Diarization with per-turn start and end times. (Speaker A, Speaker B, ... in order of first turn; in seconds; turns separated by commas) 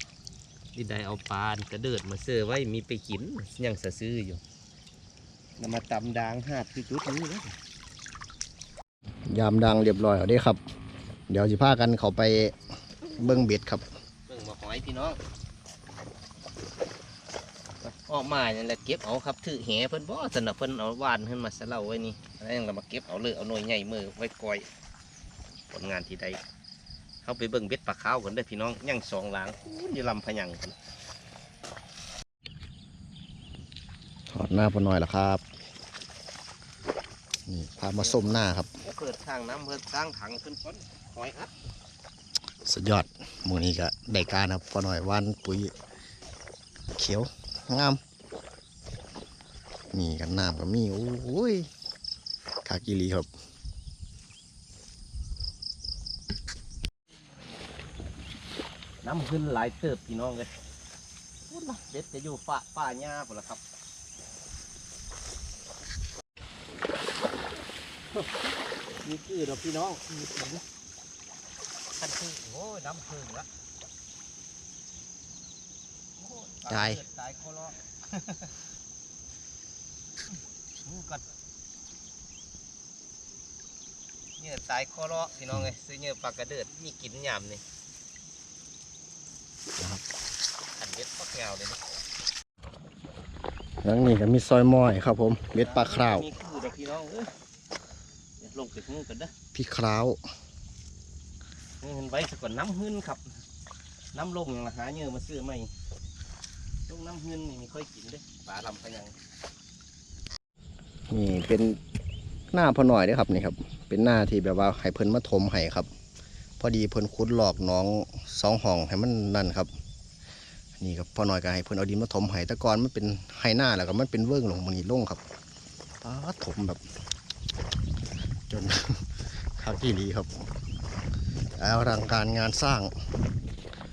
Speaker A: 0.8-4.4, Speaker A: 5.6-7.6, Speaker B: 9.3-10.6, Speaker B: 11.3-12.6, Speaker B: 13.2-13.9, Speaker A: 14.3-15.2, Speaker A: 17.8-24.7, Speaker A: 25.7-26.4, Speaker A: 27.2-30.8, Speaker B: 34.3-35.4, Speaker B: 37.5-38.7, Speaker A: 38.0-41.5, Speaker B: 42.6-45.7, Speaker B: 47.0-48.0, Speaker B: 49.9-51.7, Speaker B: 52.6-53.3, Speaker A: 59.0-60.5, Speaker A: 61.5-63.6, Speaker A: 68.1-68.5, Speaker A: 69.0-70.6, Speaker A: 72.0-73.5, Speaker A: 76.2-78.5, Speaker B: 76.7-77.0, Speaker A: 80.8-81.2, Speaker A: 84.4-87.6, Speaker B: 89.8-90.0, Speaker A: 90.8-91.8, Speaker B: 93.8-96.3, Speaker A: 95.6-97.3, Speaker A: 98.4-99.3, Speaker B: 99.5-100.2, Speaker A: 101.8-103.4, Speaker A: 104.1-105.7, Speaker A: 106.9-109.2, Speaker B: 111.1-111.8, Speaker B: 112.5-115.9, Speaker B: 116.6-119.7, Speaker B: 120.8-125.2, Speaker B: 126.0-126.8, Speaker B: 128.5-130.3, Speaker B: 131.6-132.9